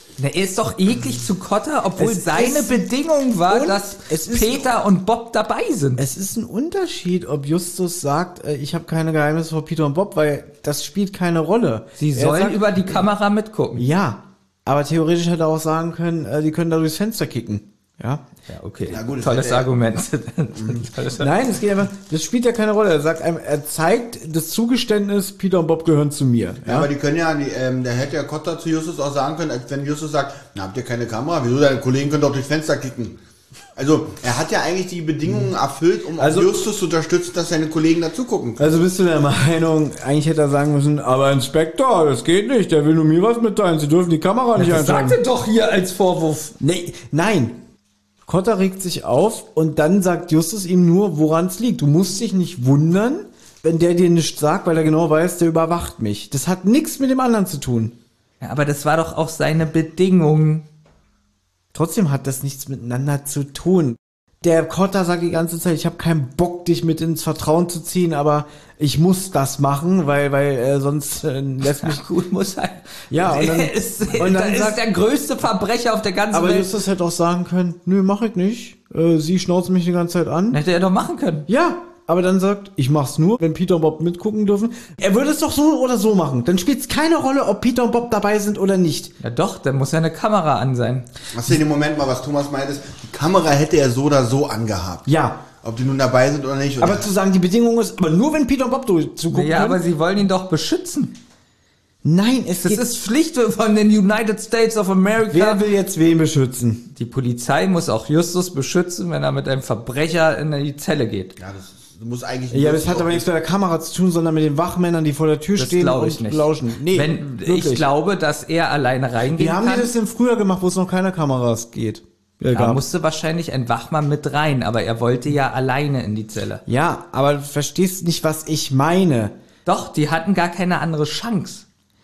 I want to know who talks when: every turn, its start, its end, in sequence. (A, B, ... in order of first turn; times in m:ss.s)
0:00.2-0:06.0 A
0:02.0-0:02.9 B
0:03.5-0:04.8 B
0:06.0-0:12.8 B
0:12.0-0:13.9 A
0:13.8-0:18.2 B
0:18.5-0:21.3 A
0:18.9-0:19.7 C
0:21.2-0:26.9 B
0:26.6-0:33.2 C
0:33.8-0:38.8 C
0:36.2-0:36.5 B
0:38.6-0:45.2 B
0:44.6-0:46.6 A
0:46.6-0:47.6 B
0:48.3-0:58.0 B
0:58.4-1:00.7 A
1:01.7-1:12.1 B
1:11.8-1:16.7 A
1:13.1-1:14.8 B
1:16.3-1:20.6 B
1:20.5-1:21.5 A
1:21.5-1:29.1 B
1:29.2-1:31.1 A
1:31.3-1:35.1 C
1:35.1-1:35.4 B
1:35.6-1:37.1 C
1:36.8-1:39.8 B
1:39.3-1:41.2 A
1:42.0-1:42.9 B
1:42.6-1:45.6 A
1:45.3-1:46.9 B
1:47.0-1:51.4 A
1:51.4-1:53.3 C
1:52.5-1:57.9 B
1:55.6-1:59.9 A
1:59.3-2:02.8 B
2:02.5-2:06.6 A
2:06.7-2:09.4 B
2:09.7-2:11.6 A